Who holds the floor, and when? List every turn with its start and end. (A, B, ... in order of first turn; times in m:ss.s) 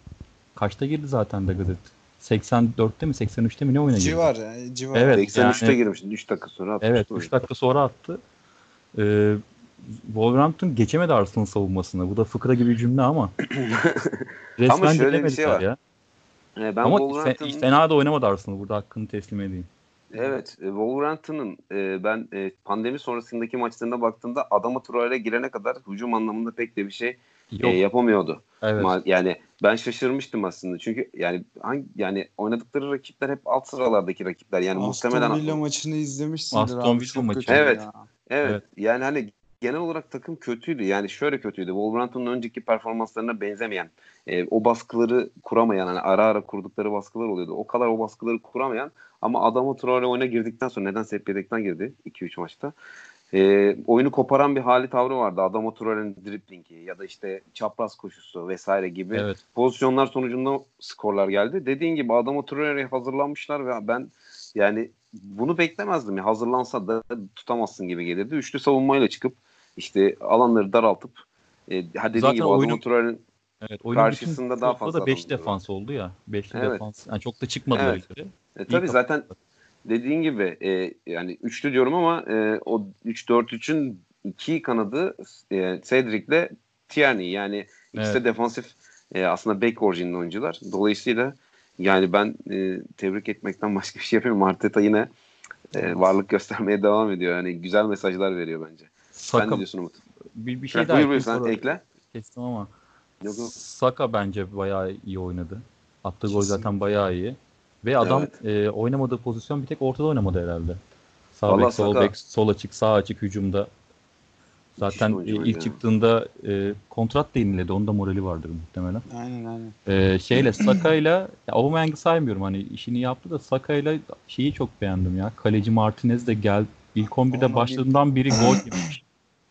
0:00.6-0:04.3 A
0:03.9-0:05.2 B
0:04.9-0:05.8 A
0:05.1-0:07.3 C
0:06.8-0:08.2 A
0:08.9-0:13.3 A
0:13.5-0:15.6 C
0:14.6-0:15.8 A
0:16.6-0:17.6 C
0:16.8-0:19.7 A
0:20.1-0:35.6 C
0:27.5-0:27.8 A
0:28.6-0:29.0 A
0:34.7-0:38.1 B
0:36.5-0:37.7 A
0:37.5-0:52.7 C
0:53.3-1:13.2 C
0:59.1-0:59.4 A
1:12.1-1:12.8 A
1:13.6-1:19.0 A
1:13.9-1:15.5 C
1:16.5-1:16.8 C
1:17.7-1:18.0 C
1:18.6-1:19.2 C
1:19.8-1:35.1 C
1:27.9-1:28.2 A
1:35.7-1:40.0 C
1:39.1-1:39.6 A
1:40.4-1:41.6 A
1:40.7-1:41.8 C
1:42.1-1:42.7 A
1:43.2-1:43.5 C
1:43.2-1:50.8 A
1:46.3-1:46.7 C
1:48.0-1:48.3 C
1:51.4-1:53.7 A
1:51.5-1:52.1 C
1:54.8-1:59.0 A
1:54.9-1:55.8 C
1:59.1-1:59.8 B
1:59.9-2:09.0 A
2:07.3-2:08.8 B